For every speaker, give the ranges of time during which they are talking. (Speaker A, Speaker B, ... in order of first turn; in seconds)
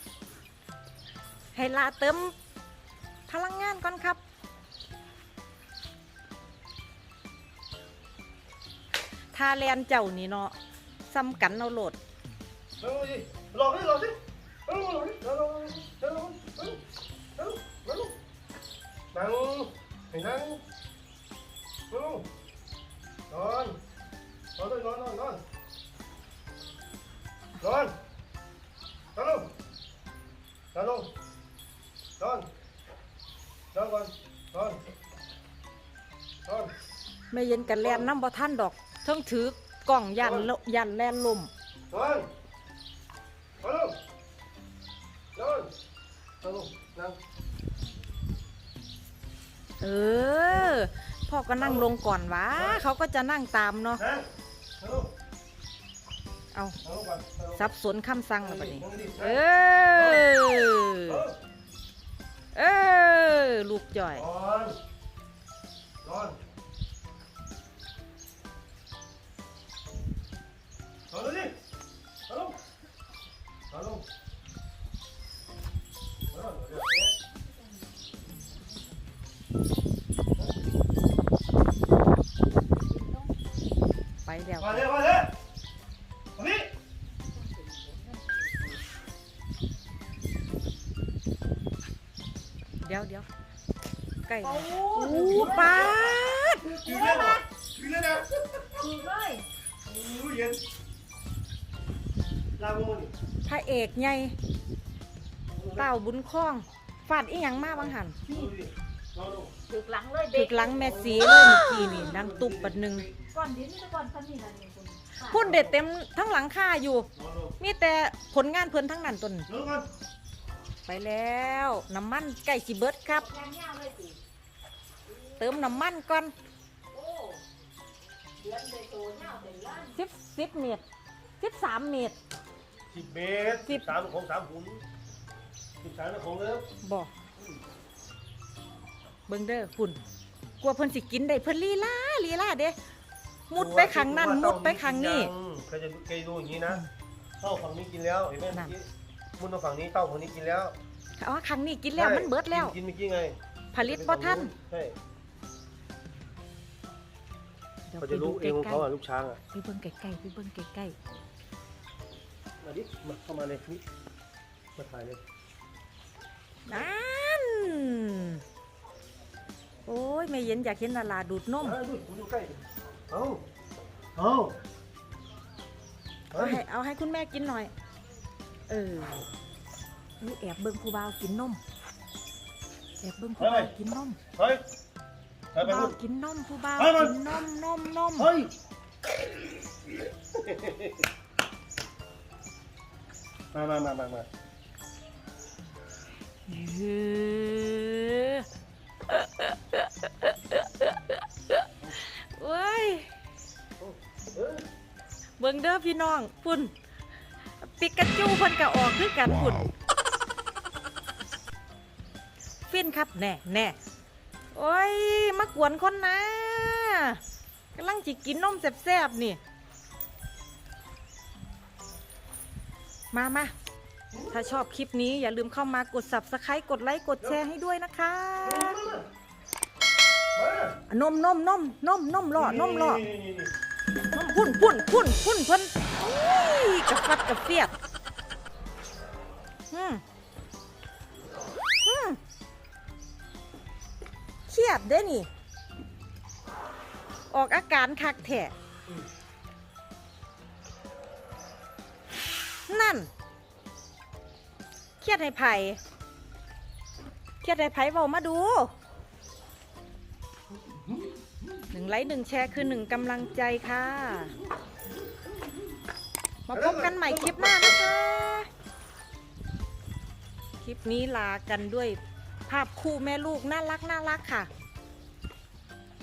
Speaker A: 1.6-2.3, 3.3-4.2, 9.3-10.6, 11.1-12.0, 37.3-41.5, 49.8-54.0, 57.6-61.2, 62.5-64.2, 84.2-84.9, 92.8-93.3, 94.2-96.8, 103.5-104.3, 105.7-108.2, 110.3-113.1, 115.2-117.1, 117.6-119.5, 120.9-123.3, 125.4-126.3, 129.9-130.8, 131.4-132.2, 136.8-137.1, 139.3-140.0, 140.6-142.8, 143.5-145.3, 151.2-152.8, 153.7-154.5, 157.9-158.9, 159.5-161.0, 166.7-168.4, 169.9-171.8, 176.3-177.7, 178.7-179.3, 180.2-181.6, 183.0-184.2, 185.6-188.3, 196.5-198.5, 199.1-203.1, 205.4-206.7, 207.6-209.7, 212.7-213.8, 214.5-217.2, 217.8-219.4, 223.1-223.5, 224.3-228.8, 230.9-233.1, 234.1-237.7, 239.7-240.0, 241.8-242.2, 244.5-245.3, 247.3-248.5, 252.7-253.1, 255.0-255.8, 257.4-258.7, 261.7-264.3, 266.5-268.5, 270.6-274.5
Speaker B: 12.8-16.8, 17.4-18.2, 19.1-20.6, 21.9-22.3, 23.3-23.8, 24.6-25.4, 27.6-27.9, 29.1-29.5, 30.7-31.1, 32.2-32.5, 33.7-34.8, 36.5-36.7, 37.7-38.1, 40.2-40.5, 41.9-42.3, 43.6-44.0, 45.4-45.7, 46.4-47.2, 50.5-50.8, 51.6-51.9, 52.5-52.8, 54.0-54.3, 54.8-55.1, 56.8-57.7, 58.4-59.4, 59.9-60.4, 61.1-61.4, 64.1-64.8, 66.0-66.4, 71.1-71.6, 72.3-72.6, 73.7-74.1, 76.3-77.0, 84.6-85.3, 86.4-86.7, 95.1-99.0, 99.8-100.6, 102.6-103.1, 105.5-105.9, 108.3-109.5, 110.8-113.1, 117.2-117.6, 119.5-119.9, 132.9-134.8, 135.8-136.7, 143.6-146.8, 147.4-150.8, 151.9-155.0, 158.0-159.4, 162.6-163.8, 164.8-165.2, 171.6-173.4, 174.2-174.6, 176.3-176.6, 183.4-183.7, 184.4-184.6, 185.5-186.0, 186.8-187.3, 188.2-188.5, 190.3-191.1, 193.5-194.3, 203.8-204.7, 228.4-229.1, 230.3-230.8, 232.3-233.5, 266.5-267.9
Speaker C: 87.6-88.4, 94.4-96.0, 96.8-97.4, 98.8-99.5, 109.7-111.5, 113.3-115.5, 123.1-124.2, 125.1-125.4, 126.9-127.4, 128.4-130.0